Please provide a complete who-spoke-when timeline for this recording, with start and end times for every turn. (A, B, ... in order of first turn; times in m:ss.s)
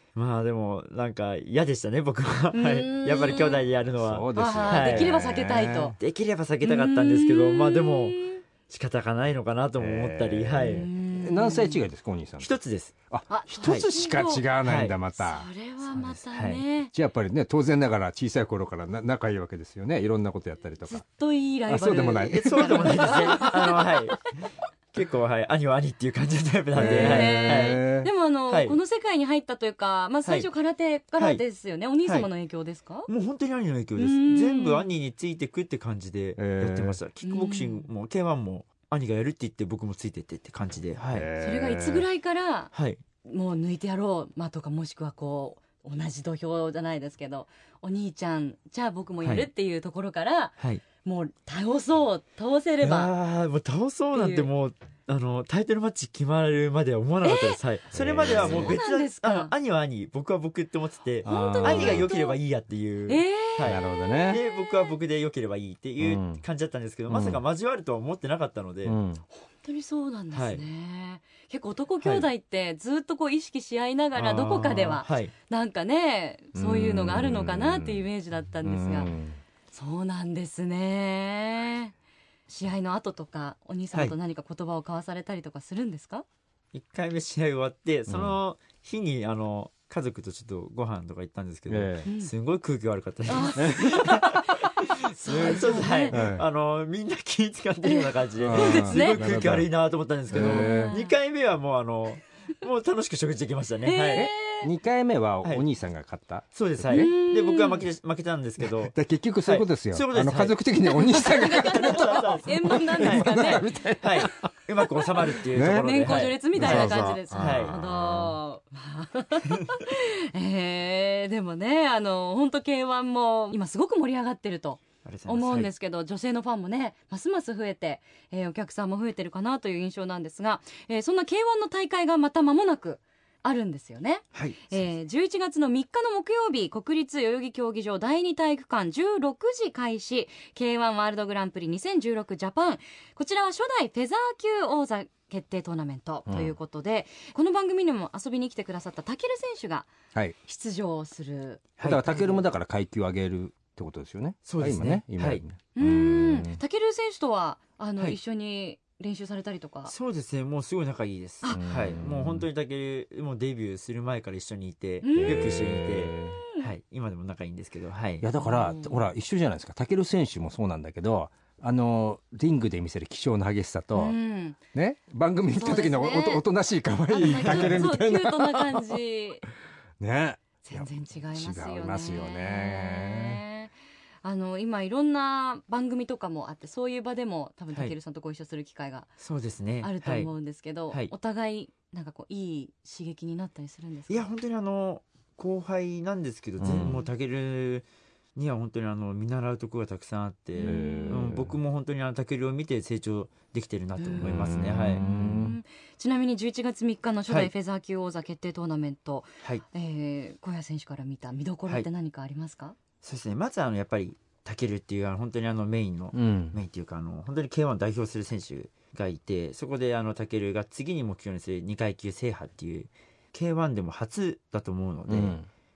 0:00.2-0:05.2 A
0:02.5-0:03.6 B
0:04.0-0:06.0 C
0:04.4-0:06.0 B
0:06.0-0:10.9 A
0:06.6-0:08.4 B
0:09.8-0:12.5 C
0:10.6-0:11.8 B
0:12.4-0:12.9 A
0:13.1-0:15.5 C
0:13.3-0:14.5 B
0:14.6-0:15.0 A
0:15.1-0:16.9 B
0:15.9-0:16.6 A
0:16.9-0:21.0 C
0:20.9-0:24.0 B
0:21.7-0:23.5 C
0:22.3-0:24.3 A
0:24.9-0:27.8 A
0:26.7-0:28.1 C
0:26.8-0:33.1 B
0:28.5-0:28.8 A
0:33.1-0:41.3 A
0:34.0-0:34.9 B
0:36.4-0:37.0 C
0:37.2-0:37.8 B
0:41.1-0:42.1 C
0:41.4-0:42.7 B
0:42.7-0:43.0 A
0:43.2-0:53.1 B
0:49.2-0:49.5 A
0:52.8-1:09.0 A
0:54.1-0:54.5 B
0:57.2-0:57.6 B
0:57.9-0:58.8 C
0:58.4-0:59.5 B
1:01.2-1:02.1 C
1:01.2-1:02.4 B
1:03.1-1:05.0 B
1:03.6-1:04.4 C
1:06.0-1:06.4 C
1:07.1-1:07.4 C
1:08.8-1:09.2 C
1:09.3-1:19.1 B
1:10.3-1:10.6 A
1:14.2-1:15.3 A
1:16.6-1:18.0 C
1:18.6-1:19.4 C
1:19.7-1:21.9 B
1:22.5-1:26.2 B
1:26.7-1:44.3 A
1:28.1-1:28.4 C
1:31.7-1:32.1 C
1:33.3-1:36.2 B
1:33.6-1:33.9 C
1:36.1-1:36.4 C
1:37.8-1:39.3 B
1:38.4-1:39.7 C
1:40.3-1:40.9 C
1:40.4-1:41.1 B
1:43.8-1:44.7 B
1:44.1-1:47.1 C
1:46.5-1:50.6 A
1:46.9-1:47.8 B
1:48.6-1:54.4 C
1:50.9-1:53.7 B
1:51.4-1:57.8 A
1:55.3-2:29.9 B
1:55.3-1:58.4 C
2:05.0-2:05.7 A
2:14.3-2:14.8 A
2:26.3-2:26.6 C
2:30.4-2:31.6 B
2:31.8-2:32.4 A
2:31.8-2:36.6 C
2:34.4-2:35.4 A
2:35.8-2:39.9 B
2:39.9-2:48.3 A
2:41.5-2:42.5 C
2:45.0-2:45.7 B
2:45.2-2:46.4 C
2:46.3-2:46.7 B
2:48.2-2:54.2 C
2:48.4-2:49.0 B
2:54.0-2:54.6 B
2:54.7-2:59.0 C
2:55.6-2:56.4 B
2:57.1-2:59.4 B
2:57.3-2:57.8 A
3:00.0-3:03.4 C
3:00.6-3:03.7 B
3:04.2-3:09.1 B
3:09.2-3:10.3 A
3:09.8-3:14.3 B
3:14.1-3:25.0 A
3:16.6-3:17.1 C
3:20.6-3:21.2 B
3:20.6-3:21.5 C
3:24.0-3:32.8 B
3:24.2-3:25.6 C
3:33.0-3:45.4 A
3:36.1-3:36.6 C
3:45.1-3:45.5 C